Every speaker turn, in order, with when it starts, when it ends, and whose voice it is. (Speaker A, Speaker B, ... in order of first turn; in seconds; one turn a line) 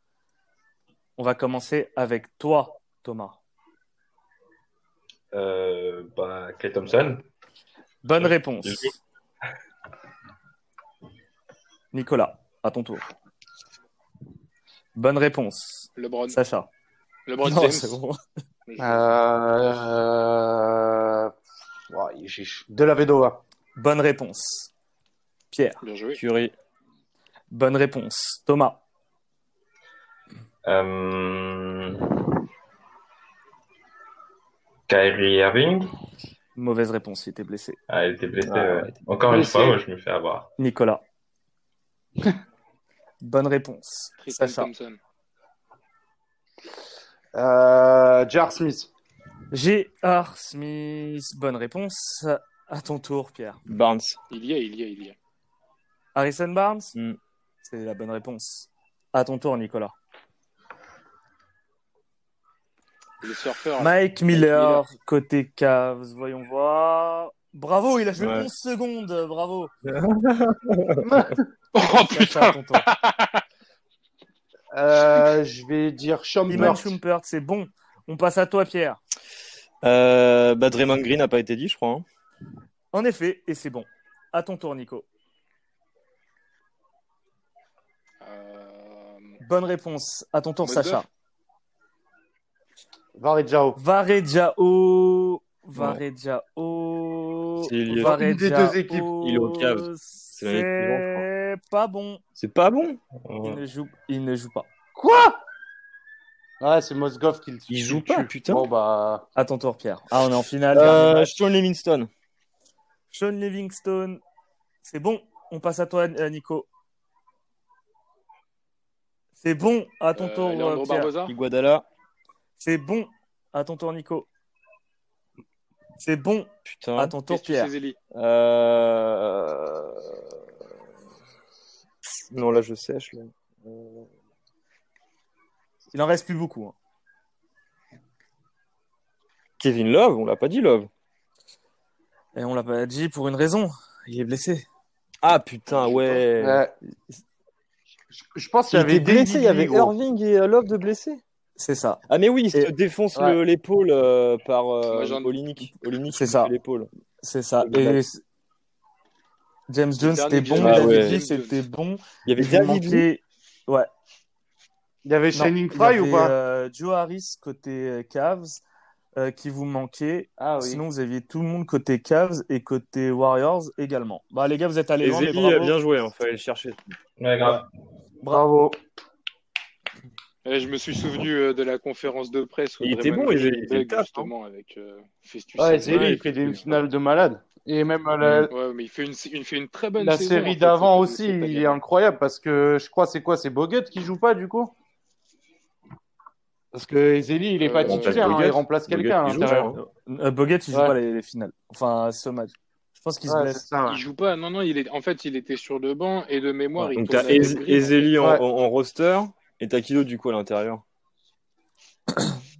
Speaker A: 1.2-3.4
Speaker B: 5.3-7.2
Speaker A: 8.0-8.9
Speaker A: 11.9-13.0
Speaker A: 14.9-16.7
Speaker C: 16.0-16.4
Speaker C: 17.2-18.0
Speaker A: 17.4-18.2
Speaker C: 18.7-19.1
Speaker D: 18.8-21.3
Speaker D: 21.9-23.4
Speaker A: 23.8-24.7
Speaker A: 25.5-25.8
Speaker C: 25.8-26.2
Speaker E: 26.1-26.5
Speaker A: 27.5-28.8
Speaker B: 30.6-32.0
Speaker B: 34.9-35.9
Speaker A: 36.5-37.8
Speaker B: 37.9-40.5
Speaker E: 38.4-39.0
Speaker D: 39.3-39.8
Speaker A: 40.6-41.0
Speaker A: 43.2-44.7
Speaker C: 44.2-45.0
Speaker D: 47.3-48.9
Speaker A: 49.5-53.6
Speaker E: 53.7-54.2
Speaker C: 54.3-55.1
Speaker A: 56.1-56.9
Speaker A: 57.6-59.9
Speaker C: 63.2-64.8
Speaker A: 63.8-69.7
Speaker E: 68.2-68.5
Speaker E: 69.8-71.1
Speaker D: 71.0-71.5
Speaker C: 71.7-73.4
Speaker A: 72.0-72.9
Speaker D: 74.7-77.0
Speaker A: 76.5-79.0
Speaker E: 79.8-82.0
Speaker A: 82.9-85.0
Speaker C: 88.2-89.3
Speaker A: 89.4-91.1
Speaker C: 90.6-91.0
Speaker D: 93.2-93.8
Speaker A: 93.8-102.2
Speaker E: 95.8-96.0
Speaker E: 97.6-98.2
Speaker D: 98.0-99.1
Speaker E: 99.2-101.2
Speaker E: 102.4-103.0
Speaker B: 103.2-103.6
Speaker A: 103.4-104.7
Speaker D: 105.0-105.4
Speaker D: 106.6-109.3
Speaker E: 107.7-108.7
Speaker A: 109.3-111.3
Speaker E: 110.7-112.1
Speaker A: 113.1-114.2
Speaker A: 114.8-116.7
Speaker A: 119.4-121.1
Speaker C: 120.2-121.3
Speaker E: 121.2-121.8
Speaker A: 122.6-124.3
Speaker A: 126.0-127.7
Speaker E: 126.7-127.2
Speaker C: 127.3-128.0
Speaker E: 128.1-130.2
Speaker E: 132.0-134.1
Speaker A: 135.9-136.7
Speaker E: 139.6-140.9
Speaker A: 142.3-144.7
Speaker E: 145.2-146.6
Speaker D: 145.7-146.7
Speaker D: 148.3-149.9
Speaker E: 148.7-151.2
Speaker A: 151.6-152.7
Speaker E: 152.1-156.9
Speaker C: 154.9-155.3
Speaker A: 156.2-156.5
Speaker A: 157.2-158.2
Speaker E: 157.6-158.0
Speaker A: 159.7-163.9
Speaker C: 160.0-161.6
Speaker E: 160.6-161.2
Speaker E: 162.2-163.1
Speaker D: 165.0-166.3
Speaker A: 165.3-168.6
Speaker A: 169.2-175.8
Speaker D: 170.4-170.8
Speaker E: 175.0-176.9
Speaker B: 177.2-177.7
Speaker D: 178.3-178.8
Speaker C: 180.4-186.8
Speaker E: 182.8-184.3
Speaker D: 185.6-188.5
Speaker E: 185.8-186.2
Speaker E: 188.2-188.5
Speaker C: 188.5-191.8
Speaker D: 190.0-194.7
Speaker D: 196.7-199.8
Speaker C: 197.6-198.3
Speaker E: 197.8-199.8
Speaker A: 199.7-203.6
Speaker D: 203.3-204.0
Speaker C: 203.8-208.1
Speaker A: 206.8-207.3
Speaker E: 206.9-210.8